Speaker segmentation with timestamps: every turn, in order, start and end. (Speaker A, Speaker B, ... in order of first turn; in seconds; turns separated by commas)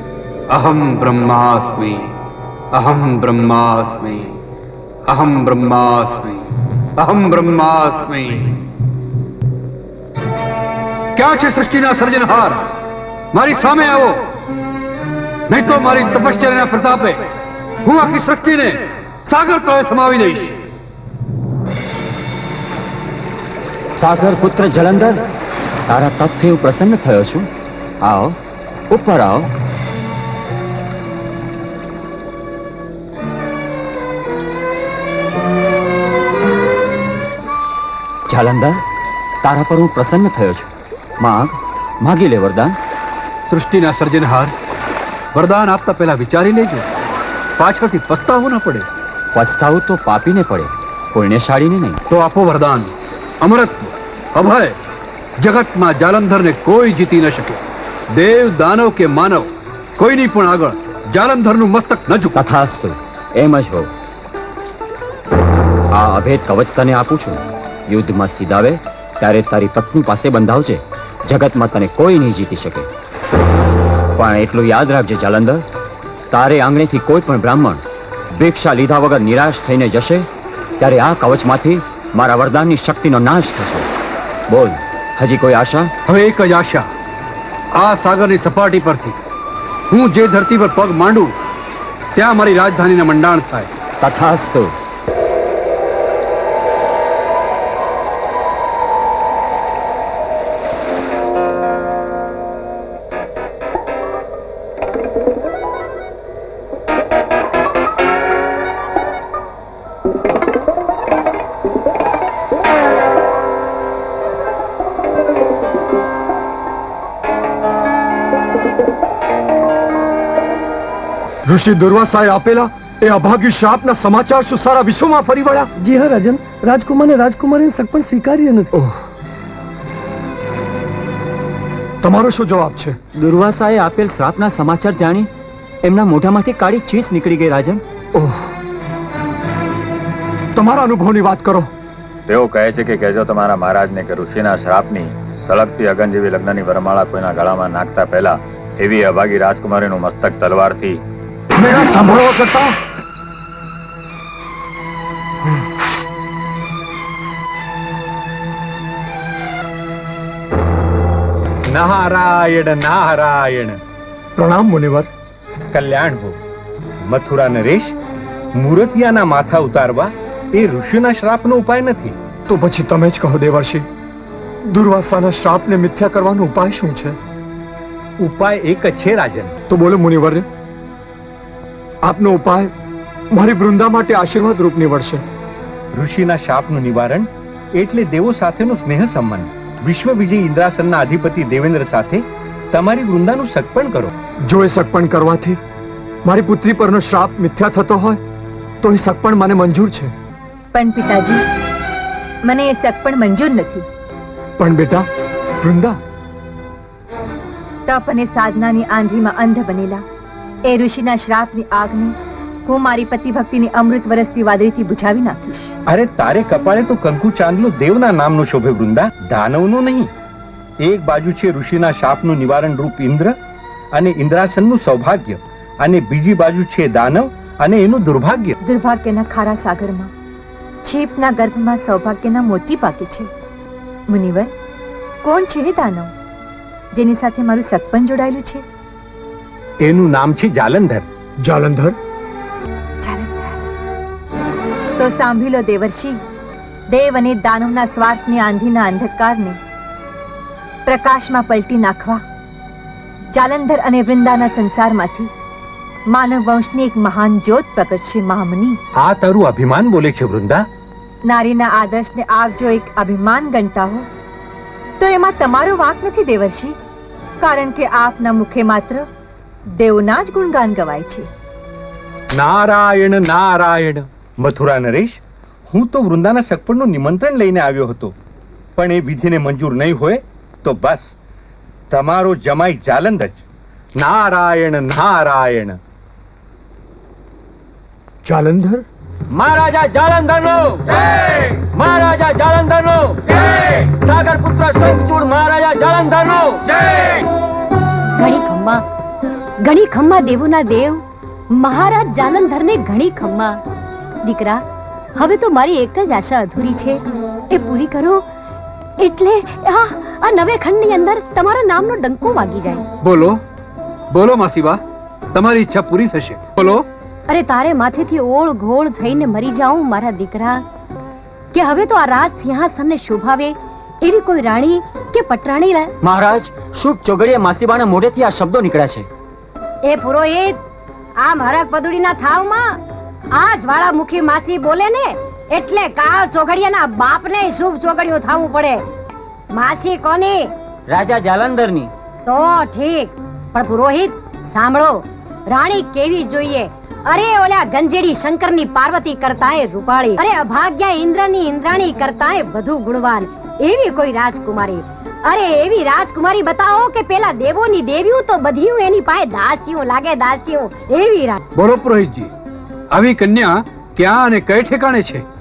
Speaker A: 0.5-2.1, Speaker A: 2.7-4.4, Speaker A: 5.1-6.5, Speaker A: 7.0-8.6, Speaker A: 11.2-12.7, Speaker A: 13.3-14.2, Speaker A: 15.5-17.2, Speaker A: 17.8-20.6, Speaker B: 24.0-25.2, Speaker B: 25.9-27.5, Speaker B: 28.0-28.4, Speaker B: 28.9-29.5, Speaker B: 38.3-38.8, Speaker B: 39.4-40.7, Speaker B: 41.2-42.8, Speaker A: 43.5-44.5, Speaker A: 45.3-46.9, Speaker A: 47.6-48.9, Speaker B: 49.3-52.0, Speaker A: 52.1-54.8, Speaker A: 55.4-62.4, Speaker B: 62.3-63.9, Speaker B: 65.9-72.9, Speaker B: 74.2-75.7, Speaker B: 76.3-77.8, Speaker B: 78.4-80.3, Speaker B: 80.8-83.9, Speaker B: 84.5-85.9, Speaker A: 86.1-86.9, Speaker A: 87.8-89.2, Speaker A: 89.9-91.3, Speaker A: 92.2-93.7, Speaker B: 94.0-94.7, Speaker C: 121.5-125.7, Speaker D: 125.8-128.7, Speaker C: 128.7-129.0, Speaker C: 132.0-133.0, Speaker B: 133.2-135.3, Speaker B: 135.8-137.8, Speaker C: 138.1-138.5, Speaker C: 140.6-141.7, Speaker E: 142.3-151.0, Speaker C: 151.6-152.8, Speaker F: 161.7-163.8, Speaker C: 164.4-165.1, Speaker F: 165.7-166.4, Speaker F: 167.1-167.9, Speaker F: 168.6-172.2, Speaker C: 172.5-173.9, Speaker C: 174.7-177.2, Speaker F: 178.2-179.5, Speaker C: 179.7-180.5, Speaker C: 182.0-182.7, Speaker C: 183.3-185.2, Speaker F: 185.9-194.1, Speaker C: 194.5-195.6, Speaker C: 196.2-198.2, Speaker C: 198.8-200.1, Speaker G: 200.7-201.4, Speaker G: 202.5-203.8, Speaker C: 204.6-205.1, Speaker C: 205.6-206.0, Speaker G: 207.9-210.0, Speaker G: 210.7-212.2, Speaker G: 212.7-215.8, Speaker F: 215.9-220.1, Speaker F: 220.8-223.3, Speaker F: 223.9-228.6, Speaker G: 228.6-230.1, Speaker G: 230.8-233.3, Speaker G: 234.1-234.5, Speaker G: 235.2-236.1, Speaker G: 236.9-238.6, Speaker F: 239.8-241.1, Speaker C: 241.4-242.0, Speaker G: 243.0-243.6, Speaker G: 245.0-246.2, Speaker G: 246.9-249.6, Speaker G: 250.9-252.2, Speaker G: 253.3-255.3, Speaker G: 256.1-258.8, Speaker F: 259.0-260.6, Speaker G: 261.3-264.1, Speaker G: 265.0-266.8, Speaker G: 267.4-269.1, Speaker G: 269.8-271.3, Speaker F: 272.4-275.2, Speaker F: 275.7-278.1, Speaker F: 278.8-281.1, Speaker F: 281.9-283.4, Speaker F: 284.0-285.8, Speaker C: 288.2-288.9, Speaker B: 289.3-290.9, Speaker B: 291.7-293.2, Speaker B: 293.9-296.6, Speaker H: 298.2-298.8, Speaker H: 299.7-301.0, Speaker H: 301.6-303.6, Speaker H: 304.3-304.6, Speaker H: 305.2-306.9, Speaker H: 307.6-308.2, Speaker B: 309.1-309.4, Speaker H: 309.5-312.9, Speaker A: 313.0-313.4, Speaker A: 314.1-314.8, Speaker A: 315.3-316.9, Speaker H: 317.3-320.6, Speaker H: 321.6-323.5, Speaker H: 324.1-325.9, Speaker B: 326.0-329.1, Speaker H: 329.9-330.5, Speaker H: 331.3-332.6, Speaker H: 333.4-335.1, Speaker H: 335.6-338.6, Speaker H: 339.8-340.3, Speaker B: 340.9-341.9, Speaker H: 342.4-343.0, Speaker H: 343.8-344.1, Speaker H: 344.6-344.9, Speaker H: 345.8-346.6, Speaker H: 347.1-353.1, Speaker B: 347.8-348.5, Speaker B: 353.7-354.0, Speaker H: 354.0-354.8, Speaker H: 355.4-361.4, Speaker A: 361.6-362.3, Speaker A: 362.9-365.2